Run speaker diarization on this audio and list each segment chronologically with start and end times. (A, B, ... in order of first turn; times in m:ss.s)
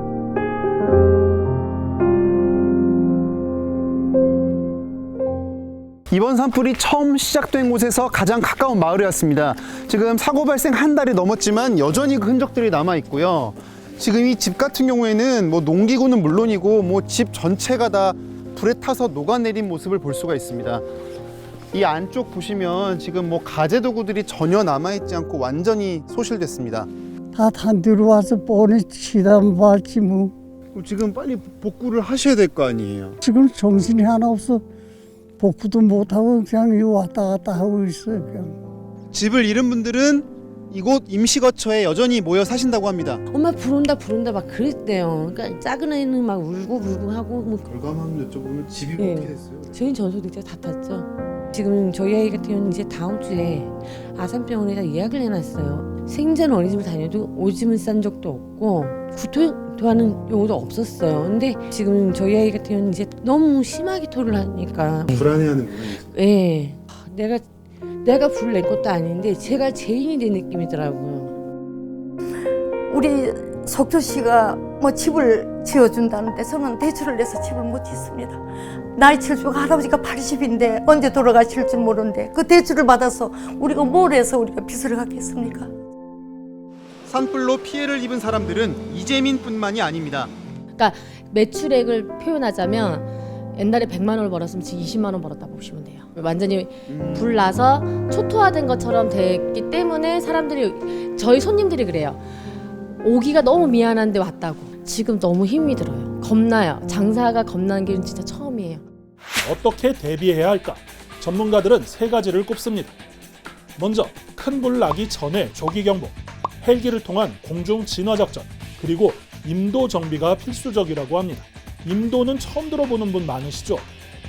0:06.1-0:20.8 A
0:21.7-0:26.9 A
0:27.3-0:30.3 B
0:30.7-0:33.2 A
0:33.2-0:34.6 B
0:35.4-0:38.6 B
0:39.1-0:43.2 A
0:43.3-0:47.7 C
0:47.7-0:49.8 A
0:49.0-1:05.4 C
1:05.1-1:06.1 A
1:06.0-1:07.4 C
1:08.0-1:11.3 C
1:12.9-1:18.4 D
1:18.9-1:25.7 D
1:27.0-1:30.3 A
1:30.7-1:48.8 E
1:36.9-1:37.4 A
1:49.4-1:52.9 F
1:53.8-2:03.9 F